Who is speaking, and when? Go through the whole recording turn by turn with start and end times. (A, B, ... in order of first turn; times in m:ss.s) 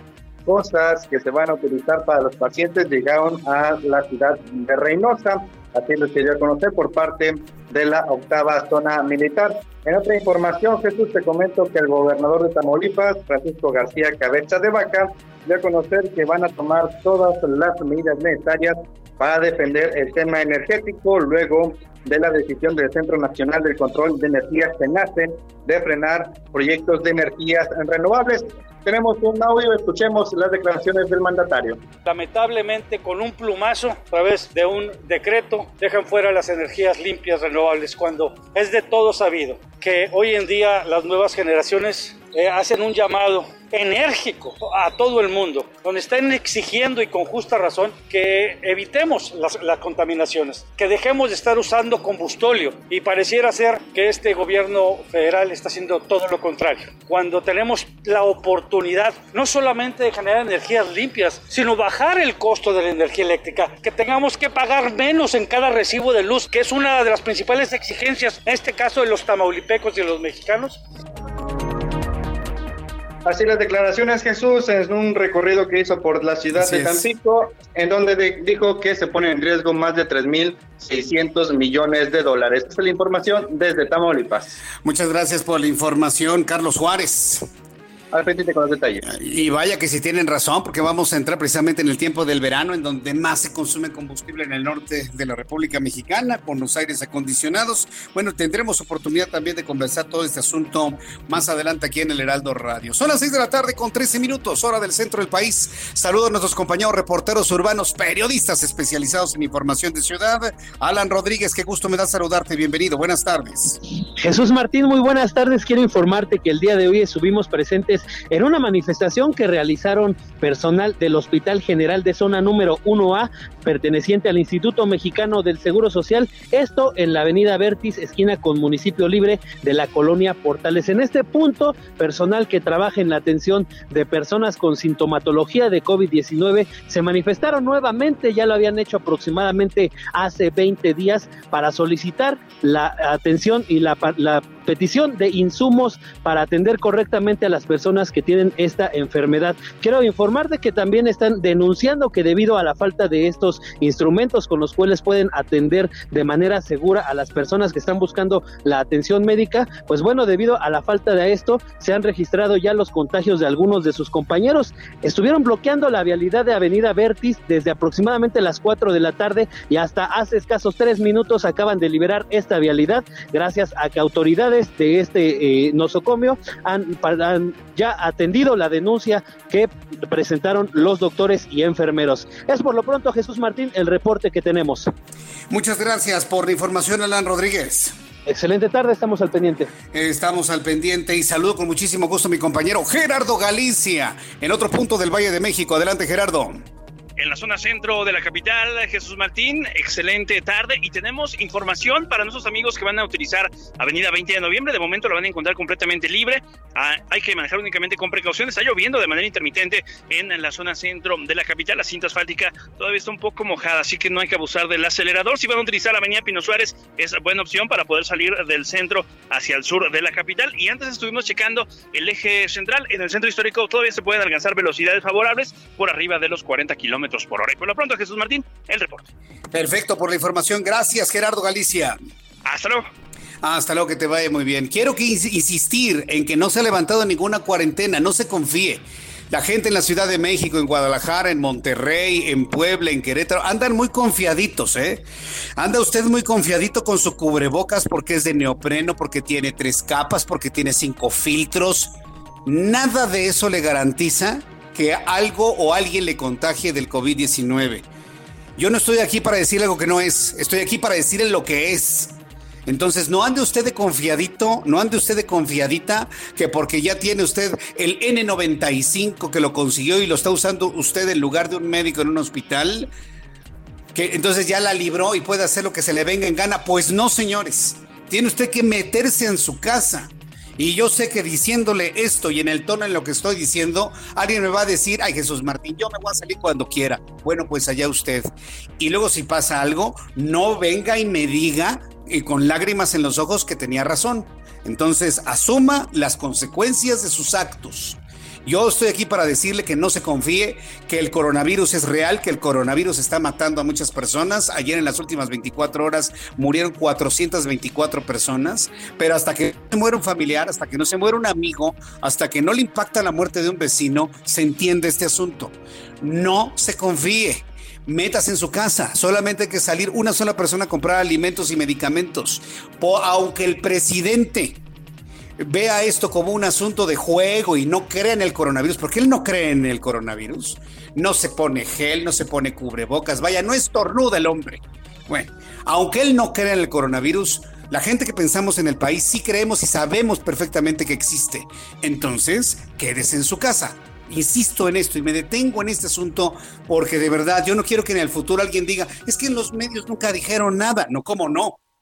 0:00.5-0:31.8 A
0:32.1-1:10.8 B
1:13.3-1:24.5 A
1:16.6-1:17.1 C
1:24.8-1:27.5 C
1:28.1-1:29.0 A
1:29.0-1:53.8 C
1:54.2-3:04.9 D
3:05.5-3:07.9 C
3:08.3-3:09.7 D
3:09.9-3:16.6 C
3:17.2-3:49.1 E
3:49.5-3:52.0 C
3:52.4-3:52.9 E
3:53.4-4:05.0 C
4:05.6-4:11.9 C
4:12.4-4:17.9 C
4:18.6-4:32.9 C
4:33.9-5:24.6 C
5:25.4-5:51.6 C